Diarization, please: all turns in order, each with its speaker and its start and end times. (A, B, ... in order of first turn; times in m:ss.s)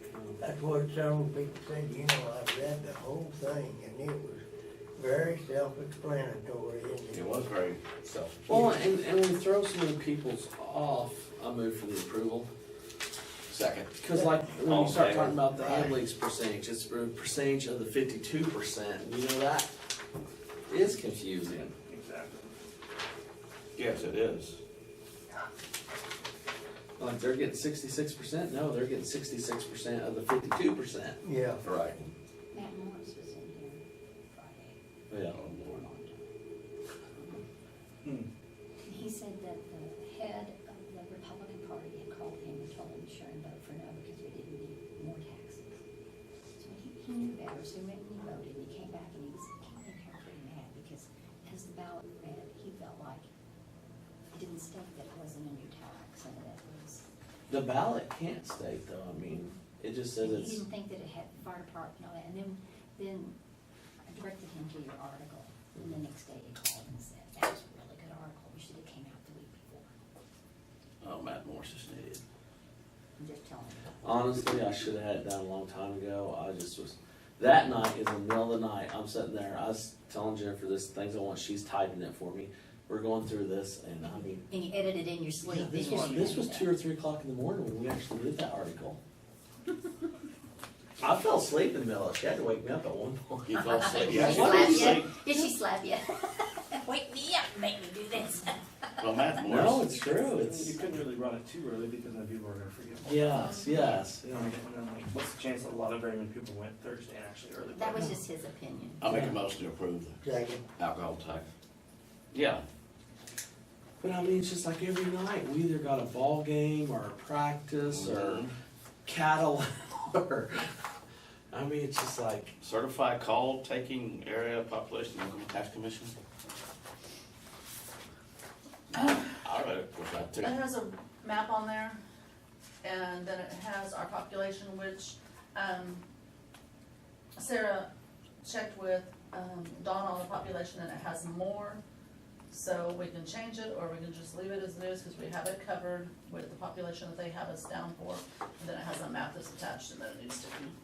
0:00.4-0:04.4 A
0:05.0-0:07.2 A
0:07.1-0:08.7 B
0:08.4-0:12.5 C
0:13.5-0:16.0 B
0:14.0-0:19.7 C
0:20.7-0:21.7 C
0:21.9-0:22.5 D
0:23.8-0:24.6 B
0:27.0-0:31.2 C
0:31.2-0:31.6 A
0:31.6-0:32.1 B
0:32.5-0:34.8 E
0:35.1-0:35.8 C
0:35.3-0:35.8 B
0:35.5-0:36.3 E
0:37.1-0:37.4 E
0:38.9-0:45.6 E
0:46.6-0:53.3 E
0:54.3-0:57.0 E
0:57.5-1:00.6 C
1:00.2-1:03.3 E
1:04.1-1:09.9 E
1:11.0-1:12.2 B
1:13.2-1:14.0 E
1:14.0-1:24.4 C
1:24.5-1:26.7 E
1:25.4-1:29.0 C
1:25.8-1:26.4 D
1:31.0-1:33.2 C
1:33.3-1:35.1 B
1:33.5-1:39.4 E
1:34.2-1:34.8 C
1:39.0-1:39.9 B
1:39.4-1:40.8 C
1:40.3-1:43.5 D
1:43.0-1:44.6 C
1:44.3-1:48.2 D
1:47.7-1:49.0 E
1:49.0-1:50.2 B
1:50.2-1:50.6 A
1:50.8-1:51.5 B
1:52.3-1:52.6 B
1:54.0-1:58.5 C
1:57.8-1:58.5 B
1:59.0-2:00.7 C
2:01.5-2:02.5 C
2:02.6-2:06.2 B
2:08.9-2:10.6 B
2:09.0-2:09.3 F
2:10.4-2:12.0 F
2:12.8-2:16.0 F
2:17.4-2:17.9 F
2:18.4-2:21.8 F
2:22.5-2:30.8 F